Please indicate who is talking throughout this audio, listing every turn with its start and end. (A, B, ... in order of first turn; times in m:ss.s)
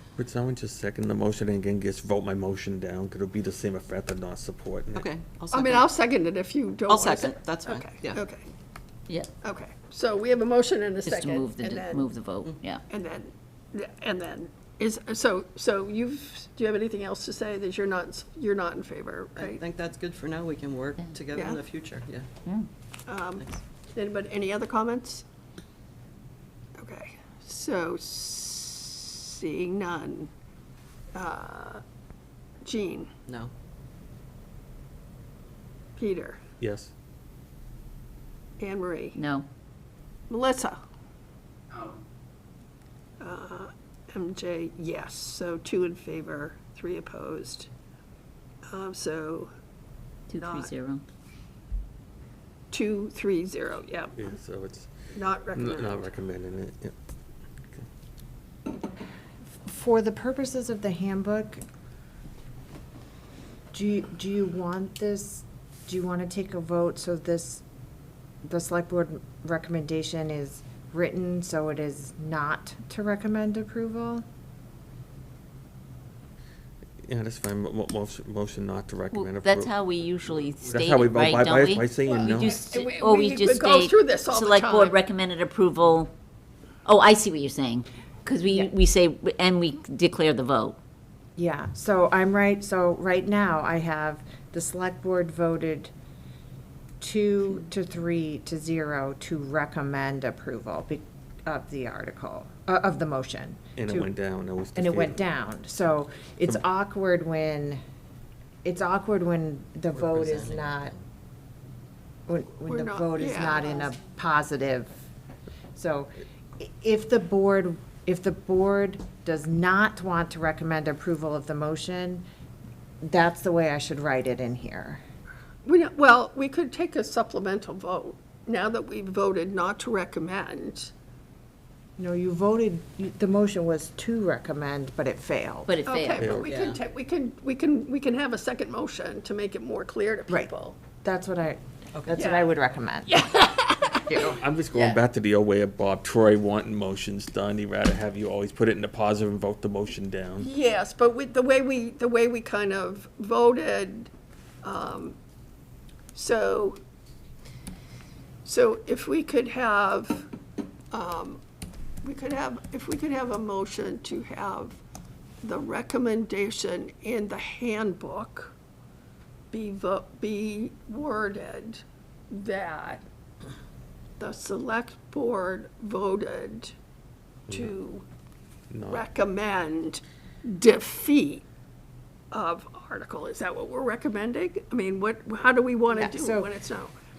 0:00.2-0:05.1 A
0:04.9-0:05.9 B
0:05.5-0:08.4 C
0:06.9-0:08.2 B
0:09.4-0:12.1 C
0:11.0-0:12.8 D
0:12.9-0:19.6 C
0:19.4-0:22.3 B
0:21.3-0:21.6 C
0:23.1-0:25.2 C
0:26.8-0:30.3 C
0:31.2-0:31.8 C
0:32.6-0:33.1 C
0:36.0-0:36.4 C
0:36.6-0:36.9 A
0:38.6-0:39.2 C
0:39.2-0:39.5 D
0:40.3-0:40.8 C
0:43.2-0:47.7 C
0:48.7-0:49.5 C
0:50.3-0:51.0 D
0:50.4-0:50.7 C
0:52.7-0:54.2 C
0:54.1-0:54.9 A
0:55.2-0:56.1 C
0:55.5-0:56.9 A
0:59.6-1:01.6 E
1:03.7-1:07.6 E
1:08.4-1:14.2 E
1:17.0-1:19.9 A
1:19.1-1:26.1 D
1:20.7-1:22.6 A
1:22.0-1:25.0 C
1:26.8-1:30.8 D
1:31.4-1:35.9 E
1:37.0-1:44.1 E
1:43.8-1:45.2 A
1:44.8-1:47.8 E
1:48.6-1:50.9 E
1:49.9-1:51.0 B
1:52.3-1:55.0 E
1:52.7-1:53.9 C
1:55.8-2:02.2 E
2:03.0-2:05.0 E
2:05.6-2:10.9 C
2:12.0-2:15.7 E
2:15.7-2:16.3 D
2:15.9-2:20.8 C
2:16.2-2:16.5 A
2:16.4-2:16.8 B
2:20.3-2:23.4 E
2:22.0-2:22.2 B
2:22.1-2:22.5 C
2:23.1-2:25.0 C
2:24.2-2:30.5 A
2:30.4-2:34.1 C
2:34.6-2:35.2 C
2:36.2-2:36.8 C
2:38.4-2:40.3 C
2:40.9-2:41.4 C
2:42.0-2:44.8 C
2:45.4-2:48.5 C
2:49.5-2:53.0 C
2:54.2-2:56.7 C
2:57.5-2:57.7 A
2:57.5-2:58.0 C
2:58.7-2:59.1 A
2:58.9-3:01.4 C
3:02.3-3:07.0 C
3:05.9-3:06.5 E